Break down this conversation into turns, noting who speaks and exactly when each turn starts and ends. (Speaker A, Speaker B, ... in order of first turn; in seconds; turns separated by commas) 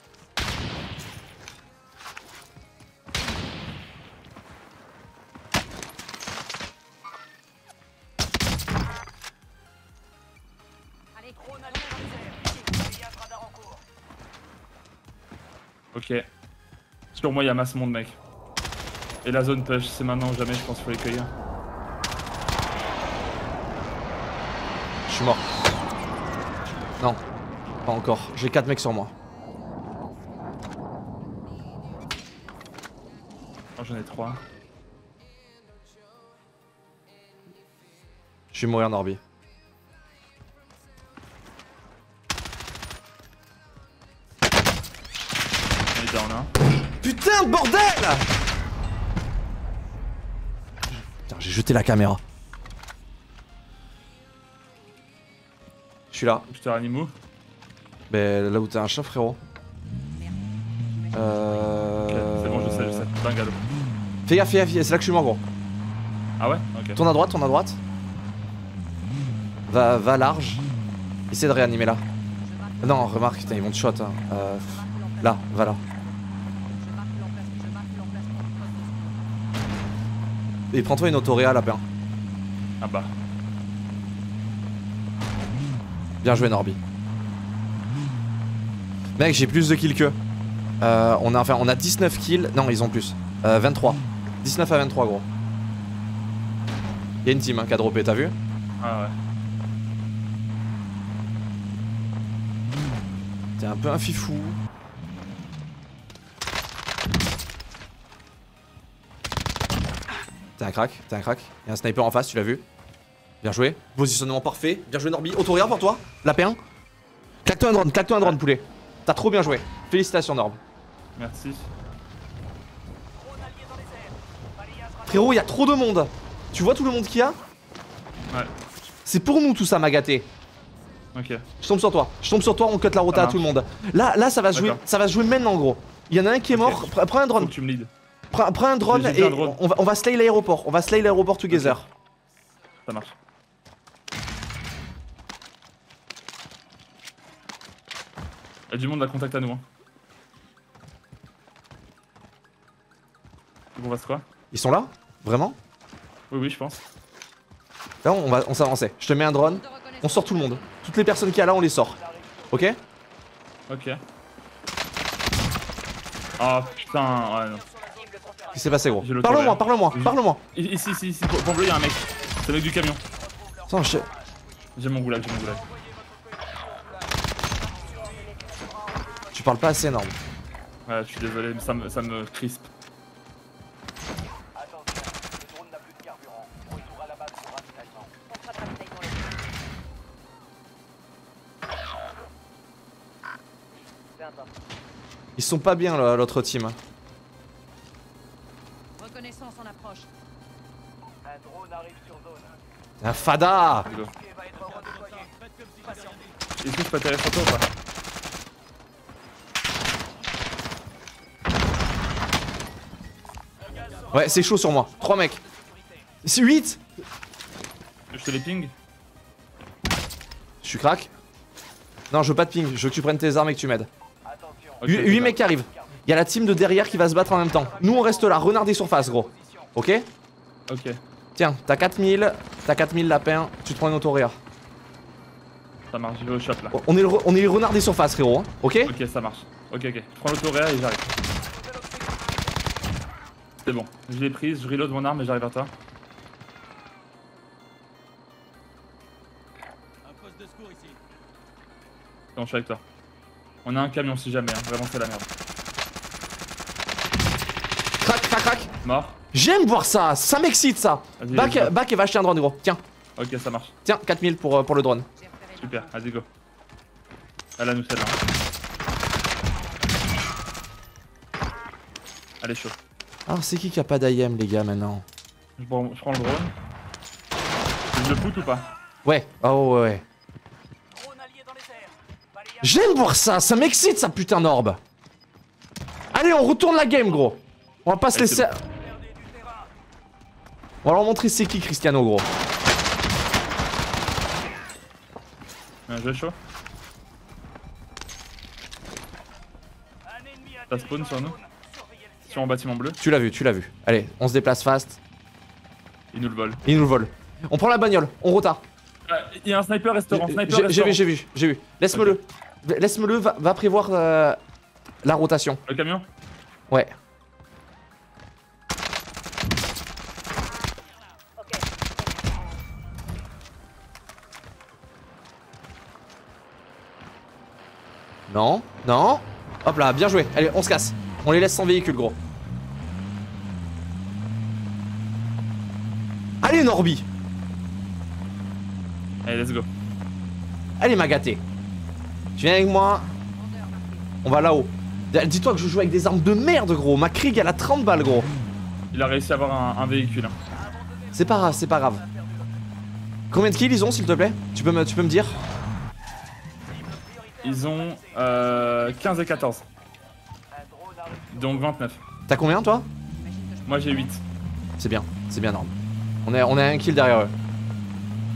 Speaker A: 11.1-12.5, Speaker B: 11.3-13.8, Speaker C: 15.9-16.2, Speaker C: 17.1-18.2, Speaker C: 19.2-21.3, Speaker D: 25.1-25.4, Speaker D: 27.8-29.1, Speaker C: 33.8-34.4, Speaker D: 38.5-39.2, Speaker C: 45.9-46.5, Speaker D: 47.0-48.2, Speaker D: 51.0-52.2, Speaker D: 56.1-56.5, Speaker C: 56.5-57.1, Speaker D: 58.1-59.4, Speaker A: 60.1-61.8, Speaker D: 61.1-63.1, Speaker C: 62.1-63.6, Speaker D: 64.2-65.4, Speaker C: 66.4-67.0, Speaker D: 67.0-67.8, Speaker D: 69.7-70.6, Speaker D: 71.3-72.0, Speaker A: 72.4-73.8, Speaker D: 72.8-75.8, Speaker A: 74.7-75.9, Speaker A: 76.8-79.2, Speaker D: 80.7-81.8, Speaker C: 82.8-83.1, Speaker D: 86.2-86.8, Speaker D: 89.2-90.2, Speaker D: 90.8-95.2, Speaker D: 97.2-98.3, Speaker C: 98.8-99.1, Speaker D: 103.6-104.6, Speaker D: 110.6-112.6, Speaker D: 113.4-116.6, Speaker D: 117.4-120.6, Speaker C: 121.2-121.7, Speaker B: 123.1-125.5, Speaker D: 125.1-127.4, Speaker D: 129.1-130.3, Speaker C: 131.1-131.4, Speaker D: 131.6-137.5, Speaker C: 133.1-133.4, Speaker C: 134.5-134.8, Speaker C: 136.5-137.9, Speaker D: 138.3-141.9, Speaker C: 138.8-139.6, Speaker C: 141.5-141.8, Speaker C: 142.8-143.1, Speaker C: 148.7-149.6, Speaker C: 153.7-154.2, Speaker D: 154.5-155.6, Speaker C: 156.3-156.8, Speaker D: 158.0-162.0, Speaker A: 159.4-160.8, Speaker D: 162.5-162.8, Speaker C: 163.7-164.0, Speaker C: 166.4-167.6, Speaker B: 166.4-169.0, Speaker D: 168.5-170.4, Speaker C: 169.0-173.0, Speaker B: 173.1-174.5, Speaker D: 173.7-174.1, Speaker C: 174.8-175.6, Speaker B: 175.3-179.7, Speaker A: 177.9-178.5, Speaker D: 179.3-180.1, Speaker C: 180.9-182.7, Speaker A: 188.2-189.4, Speaker D: 195.4-196.8, Speaker A: 199.0-200.1, Speaker D: 203.0-203.9, Speaker C: 203.8-204.1, Speaker B: 203.8-206.3, Speaker C: 206.6-207.6, Speaker B: 213.6-216.1, Speaker D: 214.1-215.4, Speaker D: 216.2-216.8, Speaker C: 218.1-218.7, Speaker D: 220.6-221.1, Speaker D: 222.1-223.9, Speaker C: 224.8-225.4, Speaker D: 224.8-230.1, Speaker B: 227.2-229.7, Speaker C: 230.7-231.0, Speaker D: 231.3-234.4, Speaker C: 235.9-236.8, Speaker D: 236.7-238.9, Speaker C: 238.8-241.1, Speaker B: 241.3-242.5, Speaker C: 243.6-245.7, Speaker C: 252.3-252.8, Speaker C: 253.6-255.3, Speaker D: 258.0-258.7, Speaker C: 258.8-259.2, Speaker D: 259.3-262.8, Speaker C: 261.2-261.7, Speaker C: 263.1-263.7, Speaker D: 263.8-265.1, Speaker A: 265.1-266.0, Speaker C: 265.6-266.2, Speaker C: 267.6-268.1, Speaker C: 272.4-272.7, Speaker D: 273.3-275.0, Speaker C: 275.6-276.5, Speaker C: 277.9-278.7, Speaker D: 279.0-280.0, Speaker B: 280.9-283.1, Speaker D: 282.6-284.8, Speaker D: 286.1-288.6, Speaker C: 288.1-288.4, Speaker B: 288.6-289.7, Speaker D: 290.8-292.3, Speaker C: 295.9-296.4, Speaker B: 300.0-302.6, Speaker C: 300.7-301.4, Speaker C: 302.2-303.0, Speaker D: 303.0-305.0, Speaker C: 306.1-306.6, Speaker D: 306.6-308.6, Speaker C: 309.1-311.1, Speaker D: 310.1-314.4, Speaker D: 315.0-315.6, Speaker C: 315.7-316.1, Speaker D: 316.7-316.9, Speaker A: 321.4-321.8, Speaker D: 328.3-332.2, Speaker D: 336.4-337.0, Speaker C: 339.2-339.7, Speaker D: 340.8-341.4, Speaker D: 342.4-343.1, Speaker A: 343.3-344.1, Speaker D: 344.2-348.3, Speaker C: 348.9-350.4, Speaker B: 350.5-352.6, Speaker D: 351.1-352.0, Speaker D: 353.3-355.4, Speaker B: 356.7-359.5, Speaker C: 357.4-359.6, Speaker C: 361.3-362.0, Speaker D: 362.3-362.9, Speaker A: 363.1-364.2, Speaker C: 363.6-364.2, Speaker D: 364.8-365.7, Speaker D: 366.2-367.3